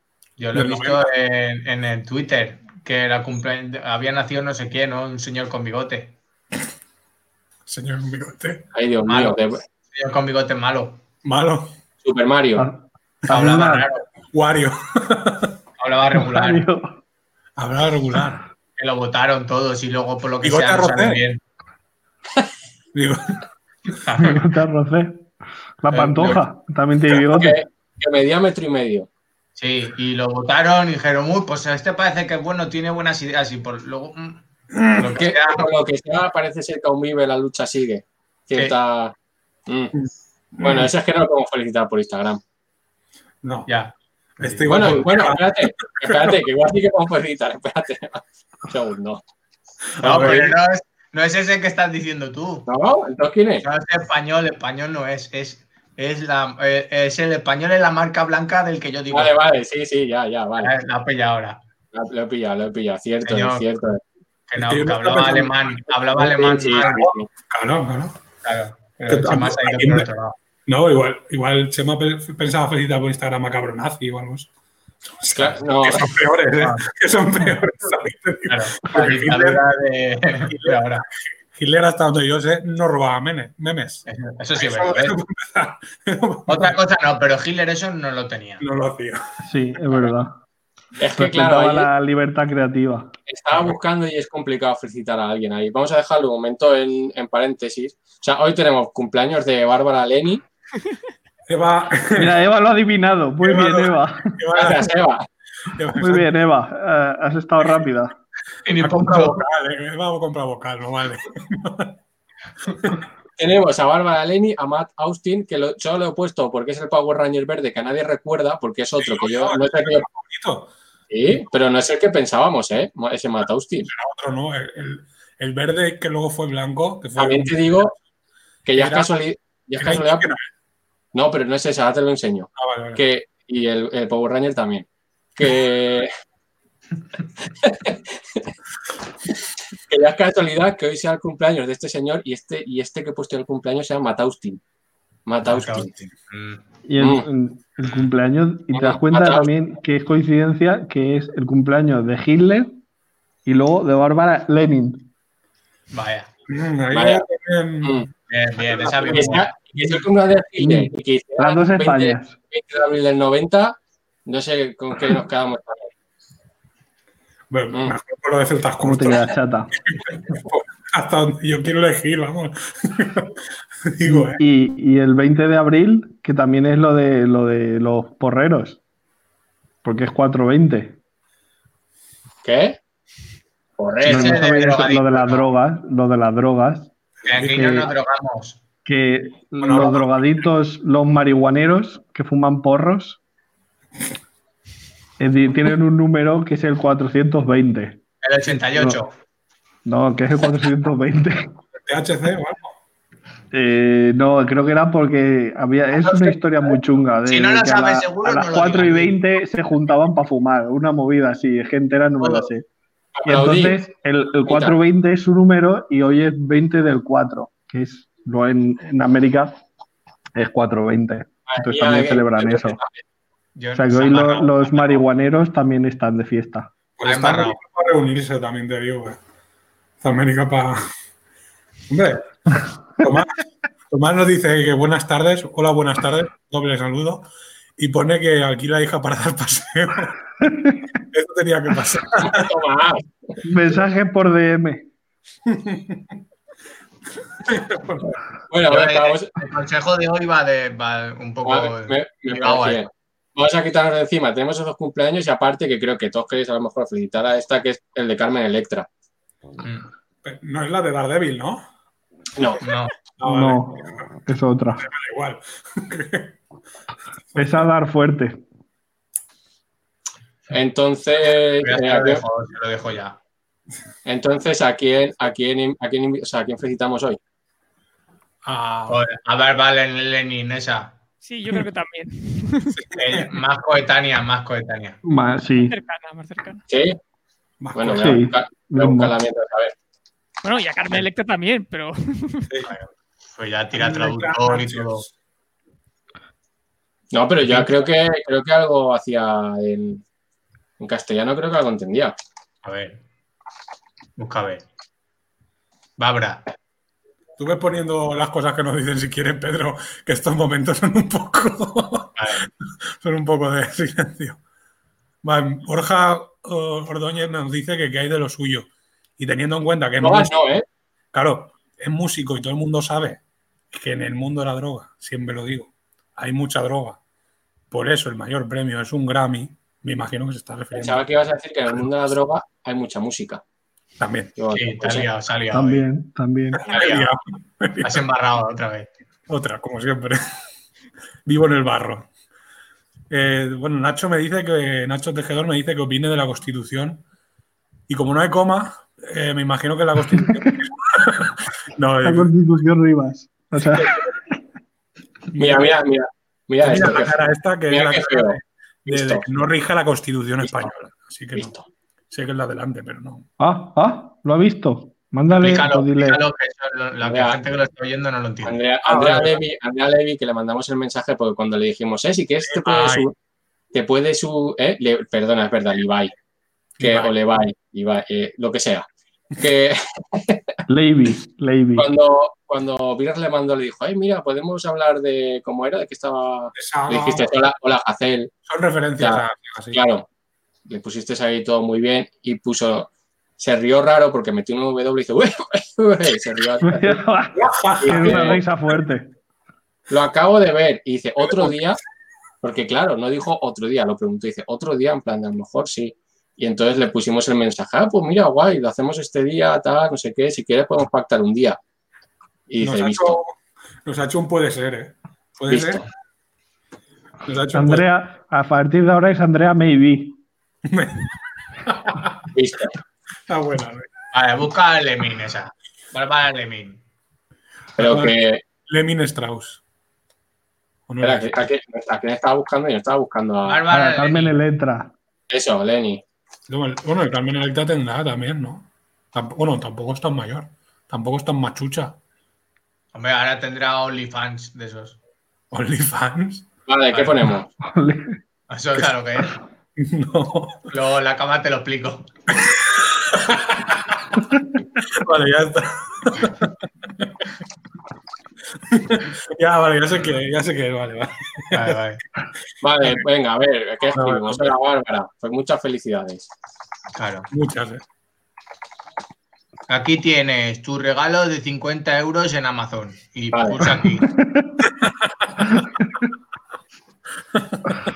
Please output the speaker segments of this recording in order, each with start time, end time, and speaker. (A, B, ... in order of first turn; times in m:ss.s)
0:00.4-0:06.1 A
0:00.5-0:01.1 B
0:07.6-0:08.7 B
0:08.7-0:09.6 C
0:09.1-0:09.4 A
0:09.9-0:11.0 A
0:11.2-0:11.7 B
0:12.0-0:12.6 C
0:12.6-0:13.9 D
0:13.3-0:14.0 A
0:14.3-0:15.6 B
0:15.8-0:16.6 A
0:16.2-0:17.0 D
0:17.6-0:18.4 B
0:18.8-0:21.4 A
0:20.4-0:21.2 B
0:22.9-0:23.4 B
0:23.9-0:24.4 A
0:24.2-0:25.3 D
0:25.8-0:27.6 D
0:25.9-0:26.4 A
0:27.3-0:29.1 C
0:29.6-0:34.4 A
0:34.7-0:35.2 B
0:35.0-0:35.6 A
0:35.1-0:39.1 C
0:39.7-0:39.9 C
0:40.5-0:42.4 C
0:40.6-0:40.9 B
0:43.4-0:43.7 B
0:43.7-0:45.0 A
0:44.4-0:46.4 B
0:44.7-0:49.2 C
0:50.0-0:50.5 B
0:50.0-0:52.7 A
0:50.0-0:50.3 C
0:52.7-0:53.6 C
0:53.6-0:59.4 A
0:59.1-1:00.7 C
1:00.6-1:01.6 A
1:01.9-1:04.0 C
1:03.2-1:03.6 A
1:04.5-1:07.1 A
1:04.6-1:05.8 B
1:06.2-1:07.3 C
1:06.8-1:08.2 B
1:08.4-1:10.4 A
1:09.1-1:10.1 B
1:10.6-1:14.5 B
1:15.0-1:19.6 B
1:15.3-1:16.1 C
1:18.5-1:21.0 A
1:20.5-1:24.0 B
1:24.1-1:25.2 A
1:24.6-1:26.7 B
1:26.5-1:28.6 A
1:28.6-1:29.2 B
1:29.4-1:30.3 D
1:31.0-1:31.9 C
1:31.2-1:33.1 D
1:33.3-1:40.4 C
1:41.5-1:42.4 B
1:42.1-1:44.4 D
1:43.4-1:44.9 B
1:44.5-1:45.2 C
1:45.7-1:46.3 B
1:46.0-1:48.1 D
1:48.6-1:49.4 A
1:48.8-1:52.0 B
1:53.4-2:00.0 C
1:59.0-2:00.7 B
2:01.1-2:03.9 C
2:03.8-2:07.9 B
2:07.2-2:07.9 C
2:08.6-2:10.2 C
2:08.8-2:09.1 B
2:09.8-2:10.5 B
2:11.1-2:14.8 C
2:12.6-2:13.0 B
2:15.4-2:16.1 C
2:17.6-2:18.4 C
2:19.9-2:24.6 C
2:25.2-2:25.9 C
2:25.4-2:26.6 A
2:26.8-2:32.8 D
2:27.0-2:27.2 C
2:28.7-2:29.5 C
2:33.4-2:35.1 D
2:35.9-2:36.3 A
2:36.5-2:38.0 B
2:36.9-2:37.2 C
2:37.8-2:38.1 C
2:38.3-2:39.6 A
2:38.6-2:39.3 B
2:39.0-2:45.9 C
2:40.6-2:42.3 D
2:47.5-2:54.4 B
2:48.8-2:49.7 D
2:54.0-2:58.8 D
2:59.8-3:01.0 D
3:02.4-3:02.8 C
3:03.8-3:04.4 C
3:04.0-3:05.5 A
3:04.0-3:06.9 D
3:07.2-3:08.6 A
3:07.2-3:07.6 B
3:07.5-3:07.9 D
3:08.8-3:13.2 D
3:09.6-3:10.4 B
3:15.2-3:18.0 D
3:18.2-3:19.1 A
3:18.7-3:19.0 D
3:19.8-3:21.5 D
3:21.8-3:22.8 B
3:23.5-3:32.6 D
3:27.2-3:29.2 A
3:32.2-3:32.5 A
3:33.1-3:33.8 C
3:33.2-3:39.6 D
3:34.5-3:34.7 C
3:40.3-3:42.8 D
3:41.5-3:43.0 C
3:43.6-3:45.0 A
3:43.7-3:46.7 D
3:47.0-3:49.2 B
3:47.0-3:47.6 A
3:50.0-3:50.8 B
3:51.9-3:53.3 B
3:53.9-4:00.2 B
4:00.4-4:00.8 D
4:01.1-4:02.5 B
4:02.2-4:03.4 C
4:03.4-4:04.9 D
4:05.4-4:06.1 B
4:07.4-4:08.2 B
4:08.5-4:09.3 C
4:08.7-4:12.8 A
4:11.4-4:18.9 C
4:19.6-4:19.8 A
4:20.2-4:21.6 B
4:22.4-4:22.6 C
4:22.6-4:22.9 A
4:23.2-4:24.1 B
4:23.2-4:24.8 D
4:24.8-4:26.4 B
4:27.3-4:27.7 B
4:27.4-4:28.4 D
4:30.5-4:32.2 C
4:31.6-4:33.2 A
4:34.0-4:37.2 C
4:38.4-4:39.0 B
4:38.9-4:40.9 A
4:41.2-4:42.8 E
4:42.7-4:43.3 B
4:43.0-4:45.0 A
4:45.0-4:45.8 D
4:45.7-4:46.6 E
4:46.7-4:47.0 C
4:47.6-4:48.2 B
4:47.7-4:49.7 C
4:48.0-4:49.2 D
4:50.4-4:52.5 E
4:52.6-4:55.0 A
4:53.7-4:55.1 B
4:57.1-5:00.0 C
5:00.8-5:02.1 C
5:02.6-5:03.0 A
5:04.2-5:04.6 A
5:06.0-5:06.4 A
5:07.4-5:12.2 B
5:12.2-5:12.4 A
5:13.0-5:14.4 B
5:15.2-5:20.3 B
5:20.0-5:20.6 C
5:21.1-5:27.0 B
5:27.7-5:31.0 B
5:30.7-5:33.4 C
5:34.0-5:34.3 B
5:34.4-5:35.1 C
5:34.5-5:35.8 A
5:35.5-5:36.6 D
5:36.5-5:38.1 B
5:36.6-5:37.1 A
5:37.8-5:38.9 A
5:39.3-5:40.2 B
5:41.2-5:42.1 B
5:43.1-5:47.0 B
5:47.9-5:52.3 B
5:50.2-5:50.6 D
5:52.0-5:54.0 D
5:53.7-5:54.1 B
5:55.3-5:55.7 B
5:55.4-5:57.1 C
5:56.6-6:01.5 B
5:57.7-5:59.2 C
6:00.4-6:00.7 C
6:01.3-6:01.6 C
6:02.1-6:03.3 B
6:03.4-6:06.2 D
6:05.4-6:08.6 A
6:07.0-6:07.4 C
6:08.4-6:13.1 C
6:08.8-6:09.4 B
6:12.4-6:13.0 B
6:12.7-6:13.0 A
6:13.7-6:16.1 C
6:16.8-6:18.8 C
6:19.4-6:20.4 C
6:20.7-6:21.9 D
6:21.8-6:28.3 C
6:26.5-6:27.3 B
6:28.4-6:29.8 B
6:29.0-6:30.0 C
6:30.7-6:37.0 C
6:36.6-6:39.1 D
6:37.3-6:38.4 B
6:37.8-6:38.4 C
6:39.9-6:41.8 C
6:41.2-6:41.6 B
6:42.4-6:51.6 C
6:52.5-6:53.2 C
6:52.6-6:55.8 B
6:55.5-6:55.8 C
6:57.2-6:57.8 B
6:57.5-7:00.2 D
7:00.7-7:02.2 B
7:02.3-7:02.7 C
7:03.3-7:03.9 B
7:04.1-7:06.8 A
7:07.8-7:08.1 B
7:07.8-7:08.4 C
7:08.6-7:09.6 B
7:10.9-7:11.3 B
7:11.0-7:13.6 C
7:13.4-7:14.3 A
7:13.7-7:14.9 D
7:15.3-7:16.0 C
7:16.5-7:22.0 B
7:22.9-7:25.0 A
7:25.5-7:26.5 B
7:26.7-7:27.5 C
7:27.6-7:28.2 D
7:28.5-7:29.4 A
7:29.8-7:30.7 B
7:30.7-7:32.1 A
7:32.3-7:34.0 B
7:34.7-7:37.2 B
7:38.7-7:41.8 B
7:41.5-7:42.0 A
7:42.6-7:46.3 C
7:43.9-7:44.5 B
7:47.0-7:47.3 A
7:47.3-7:47.8 B
7:49.7-7:54.1 A
7:53.3-7:53.7 C
7:54.2-7:54.6 D
7:54.8-7:55.6 B
7:57.3-7:57.8 B